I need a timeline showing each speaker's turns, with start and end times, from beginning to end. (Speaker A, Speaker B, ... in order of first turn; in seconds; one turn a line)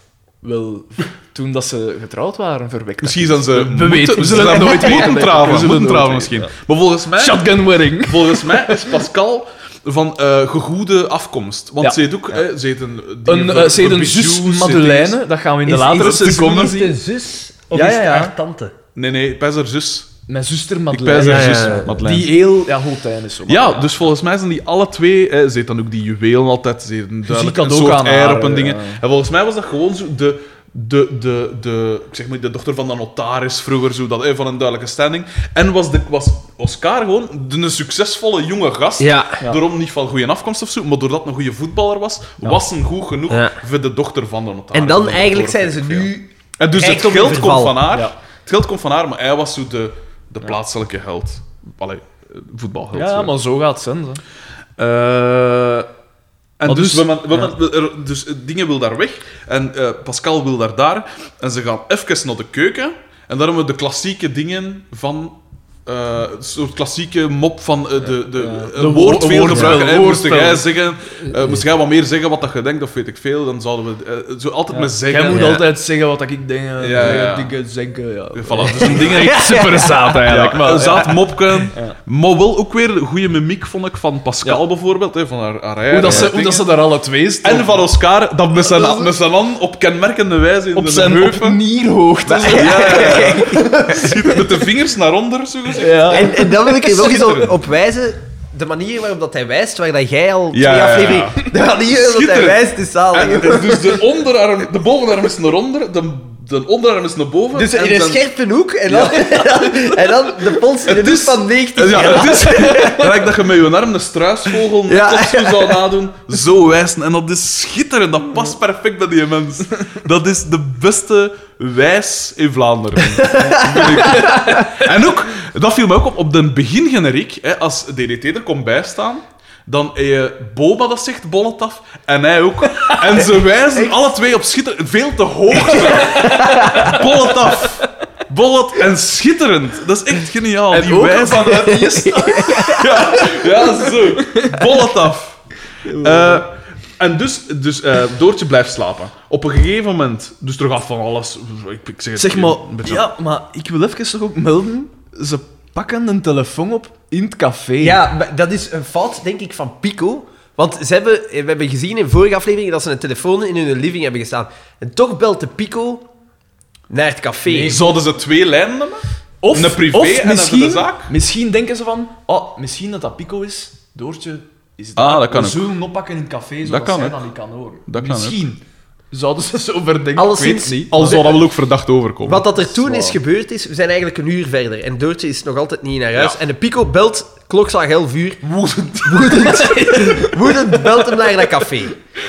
Speaker A: 0.4-6.5
Speaker B: 3.0-15.2
Speaker A: 7.2-9.0
Speaker A: 13.3-17.0
Speaker C: 15.7-18.7
Speaker B: 16.0-16.5
Speaker A: 17.7-18.3
Speaker B: 18.9-20.1
Speaker A: 20.3-24.0
Speaker B: 20.9-22.4
Speaker C: 21.1-22.0
Speaker B: 23.5-53.3
Speaker A: 27.3-29.0
Speaker C: 39.0-39.4
Speaker C: 43.3-43.6
Speaker C: 44.7-47.8
Speaker A: 52.9-54.2
Speaker B: 54.8-55.9
Speaker B: 56.6-75.6
Speaker A: 56.7-57.5
Speaker A: 68.2-70.8
Speaker A: 71.3-71.6
Speaker A: 74.7-82.0
Speaker C: 75.3-75.7
Speaker B: 76.8-77.5
Speaker B: 78.3-79.6
Speaker C: 78.7-80.2
Speaker B: 80.2-86.7
Speaker A: 85.9-87.8
Speaker B: 87.4-91.6
Speaker A: 90.8-93.8
Speaker C: 92.3-94.4
Speaker B: 92.3-97.6
Speaker A: 95.8-96.9
Speaker C: 96.1-104.0
Speaker B: 100.5-108.2
Speaker C: 107.5-113.3
Speaker B: 108.9-109.4
Speaker B: 110.8-141.9
Speaker C: 114.8-115.8
Speaker C: 123.2-124.7
Speaker A: 123.6-124.7
Speaker A: 132.8-133.2
Speaker A: 135.7-137.1
Speaker C: 136.1-137.0
Speaker A: 140.7-144.7
Speaker C: 141.7-143.0
Speaker B: 142.7-153.1
Speaker A: 145.8-146.4
Speaker A: 152.2-158.0
Speaker C: 157.8-166.1
Speaker C: 166.9-167.8
Speaker A: 167.5-167.9
Speaker B: 167.6-171.1
Speaker A: 169.4-178.6
Speaker B: 175.0-175.7
Speaker B: 176.6-177.2
Speaker B: 177.9-178.4
Speaker A: 179.1-181.2
Speaker C: 180.2-181.3
Speaker B: 180.9-183.1
Speaker C: 182.2-188.5
Speaker B: 188.4-189.8
Speaker C: 189.0-192.0
Speaker A: 189.3-190.5